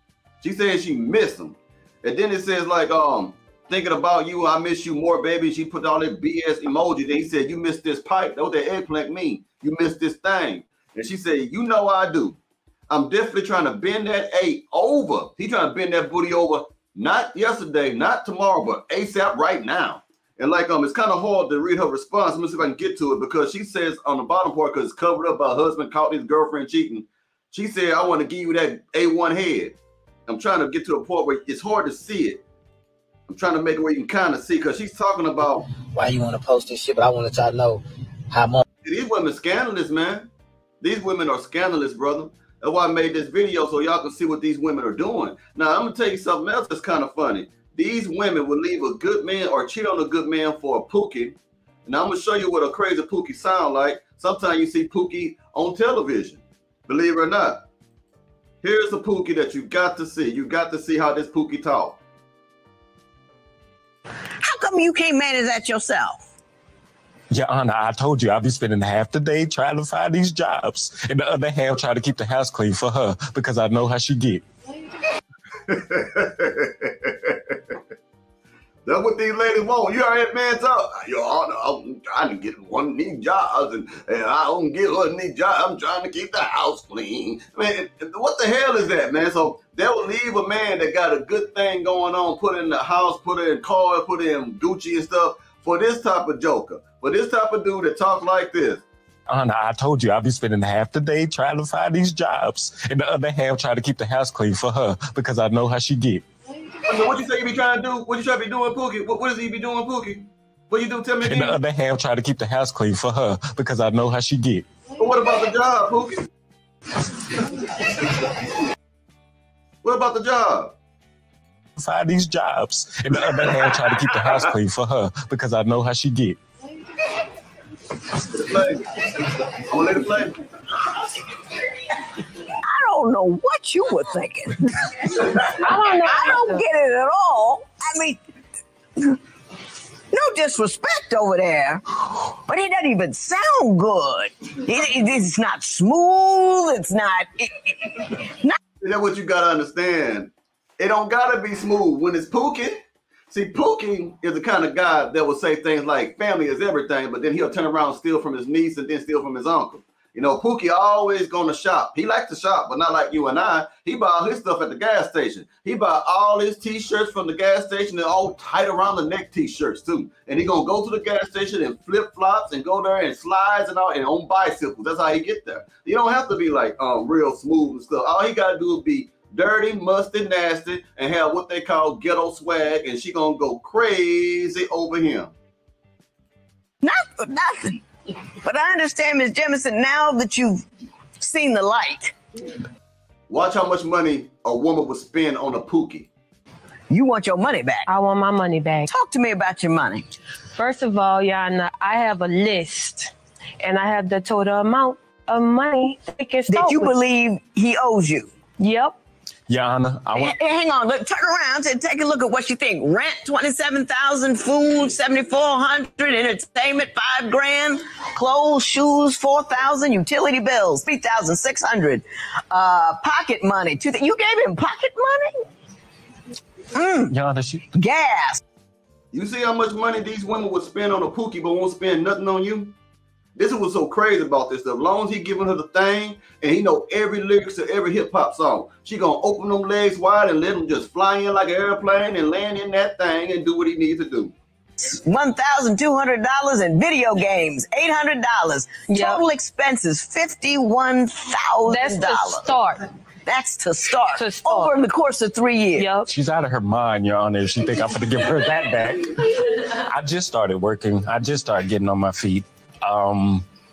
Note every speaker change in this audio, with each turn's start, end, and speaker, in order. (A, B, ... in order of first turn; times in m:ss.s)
0:00.4-0:12.4 A
0:12.9-0:32.4 A
0:33.3-0:35.6 A
0:35.7-0:38.6 B
0:38.8-0:40.3 A
0:40.8-0:57.6 A
0:58.6-1:02.0 A
1:04.4-1:06.3 C
1:07.3-1:14.4 D
1:15.7-1:17.7 A
1:18.8-1:38.8 A
1:39.3-1:46.2 D
1:46.8-1:51.6 A
1:51.2-1:54.7 D
1:55.0-1:56.1 A
1:59.8-2:00.7 A
2:01.8-2:06.4 D
2:03.3-2:04.4 A
2:08.3-2:10.3 A
2:12.6-2:15.4 C
2:15.5-2:16.6 E
2:16.0-2:18.2 C
2:20.1-2:28.6 C
2:28.8-2:32.8 A
2:33.3-3:05.3 A
3:06.8-3:07.8 C
3:08.4-3:10.6 C
3:11.2-3:12.2 C
3:13.3-3:16.1 A
3:16.9-3:17.9 C
3:17.9-3:18.9 E
3:18.9-3:20.1 C
3:20.5-3:27.0 E
3:26.5-3:28.3 C
3:28.6-3:29.0 E
3:29.5-3:30.3 D
3:30.1-3:45.4 C
3:46.7-3:47.1 C
3:47.1-3:47.6 D
3:47.7-3:48.4 C
3:49.1-3:52.7 A
3:53.4-4:04.3 A
4:04.8-4:12.5 C
4:08.9-4:09.2 E
4:11.6-4:12.9 E
4:13.2-4:15.9 C
4:14.1-4:14.7 E
4:15.8-4:16.1 E
4:16.1-4:23.4 D